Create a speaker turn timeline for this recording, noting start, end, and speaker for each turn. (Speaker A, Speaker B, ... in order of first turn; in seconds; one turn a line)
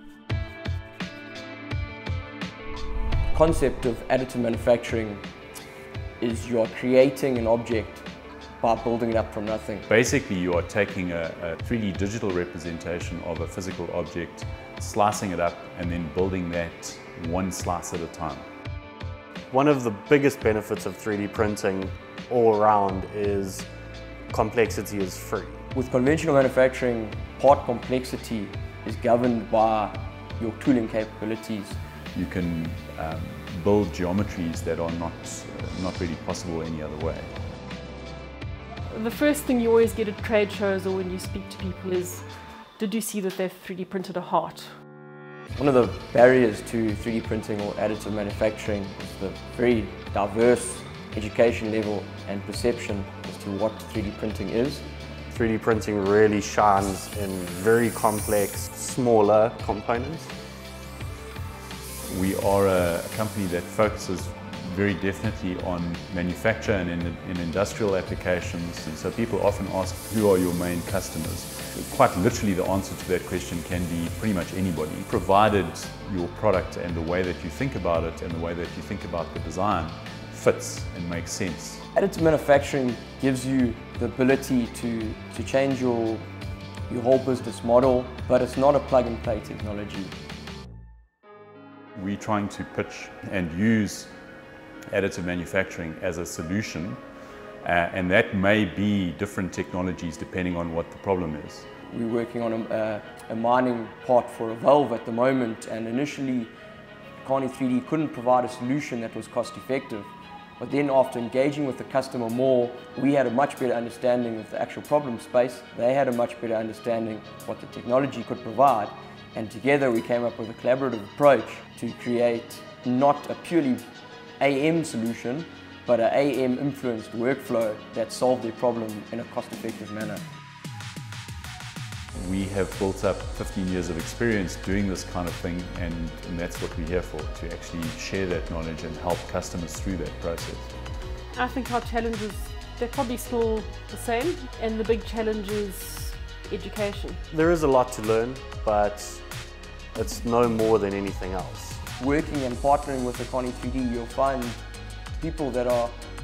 Speaker A: 3.3-5.2
Speaker A: 6.2-8.1
Speaker A: 8.6-9.8
Speaker B: 9.8-18.4
Speaker C: 19.5-23.7
Speaker C: 24.3-25.6
Speaker A: 25.7-31.8
Speaker B: 32.1-37.3
Speaker D: 38.9-44.7
Speaker A: 45.5-54.9
Speaker C: 55.3-60.3
Speaker B: 62.0-81.8
Speaker A: 81.9-86.2
Speaker A: 86.9-90.1
Speaker B: 92.0-94.1
Speaker B: 94.9-97.0
Speaker B: 97.6-101.7
Speaker A: 101.9-106.5
Speaker A: 107.2-123.9
Speaker A: 124.4-130.2
Speaker B: 132.1-140.8
Speaker D: 141.3-147.2
Speaker C: 147.3-149.3
Speaker C: 149.9-151.8
Speaker A: 152.0-154.6
Speaker A: 155.2-155.9